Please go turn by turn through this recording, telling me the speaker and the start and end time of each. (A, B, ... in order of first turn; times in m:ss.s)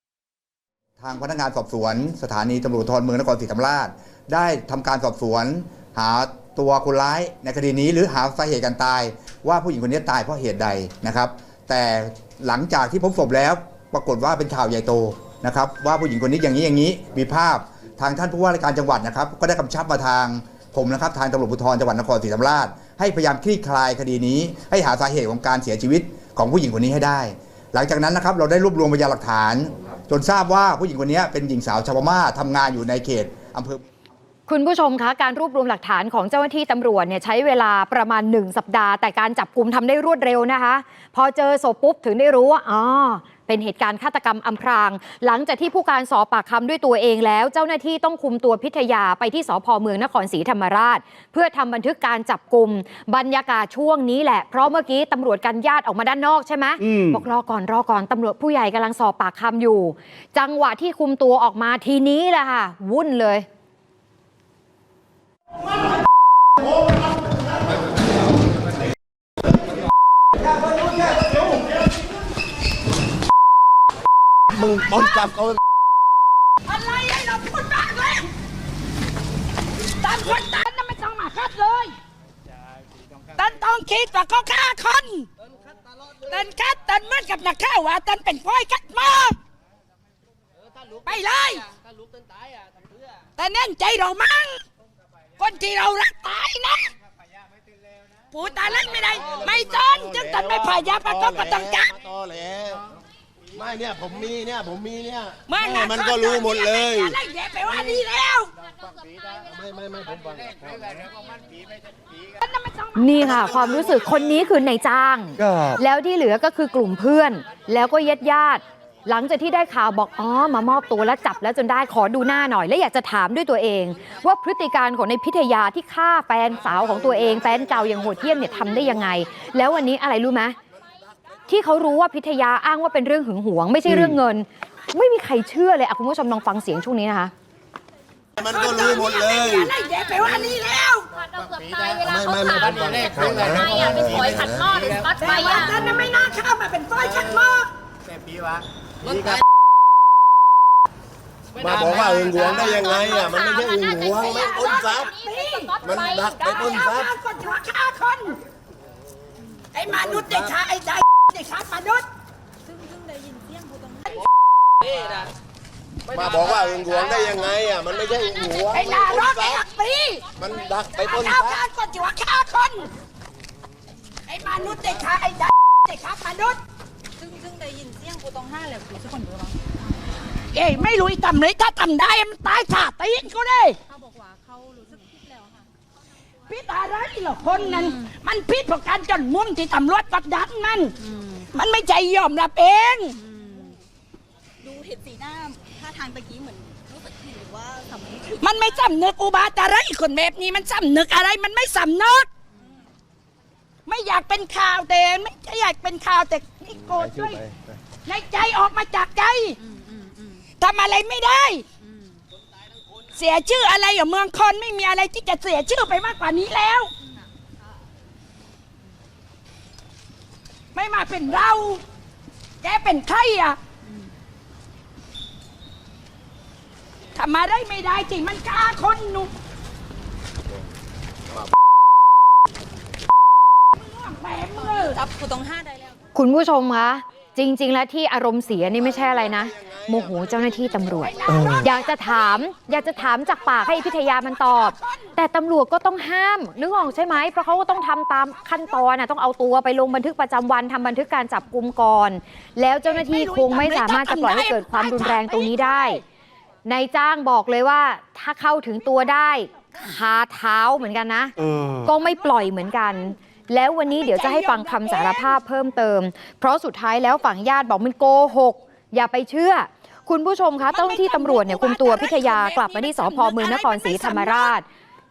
0:01.0-0:33.8 A
0:34.5-1:03.5 B
0:56.8-0:57.2 C
1:14.5-1:15.6 D
1:16.7-1:18.3 E
1:20.0-1:22.0 E
1:23.4-1:25.3 E
1:26.3-1:29.4 E
1:31.0-1:31.7 E
1:33.4-1:34.6 E
1:35.4-1:36.9 E
1:38.3-1:41.9 E
1:39.4-1:42.8 D
1:43.5-1:47.2 D
1:45.5-1:48.5 E
1:49.4-1:51.0 D
1:52.4-1:53.8 E
1:53.0-2:10.6 B
1:55.4-1:55.8 C
2:11.5-2:17.3 B
2:18.4-2:19.7 D
2:18.4-2:21.1 E
2:21.4-2:25.8 F
2:22.0-2:25.1 D
2:25.1-2:27.7 E
2:27.0-2:27.4 D
2:29.0-2:29.4 D
2:31.6-2:35.2 D
2:32.4-2:35.9 E
2:35.8-2:37.1 D
2:36.0-2:36.4 F
2:36.4-2:38.4 E
2:39.7-2:42.1 E
2:40.0-2:40.5 D
2:46.1-2:49.7 D
2:48.7-2:50.3 E
2:50.4-2:51.6 D
2:50.9-2:52.9 E
2:54.3-2:56.6 E
2:57.3-2:59.5 G
3:00.5-3:03.8 E
3:06.5-3:11.0 E
3:11.5-3:13.2 E
3:13.3-3:13.8 G
3:14.6-3:18.7 G
3:18.4-3:22.3 E
3:23.9-3:27.4 E
3:26.9-3:27.6 D
3:28.0-3:29.6 E
3:30.6-3:31.7 E
3:33.1-3:36.9 E
3:40.7-3:41.8 E
3:42.6-3:43.6 E
3:47.2-3:49.3 E
3:53.8-3:55.0 E
3:54.8-3:55.5 G
3:56.2-4:16.0 B
4:01.1-4:01.9 E
4:01.3-4:01.7 C
4:03.9-4:05.1 E
4:13.0-4:16.0 E
4:16.7-4:21.3 B
4:21.4-4:21.9 C
4:21.8-4:34.6 B
4:24.0-4:25.3 E
4:30.7-4:34.6 E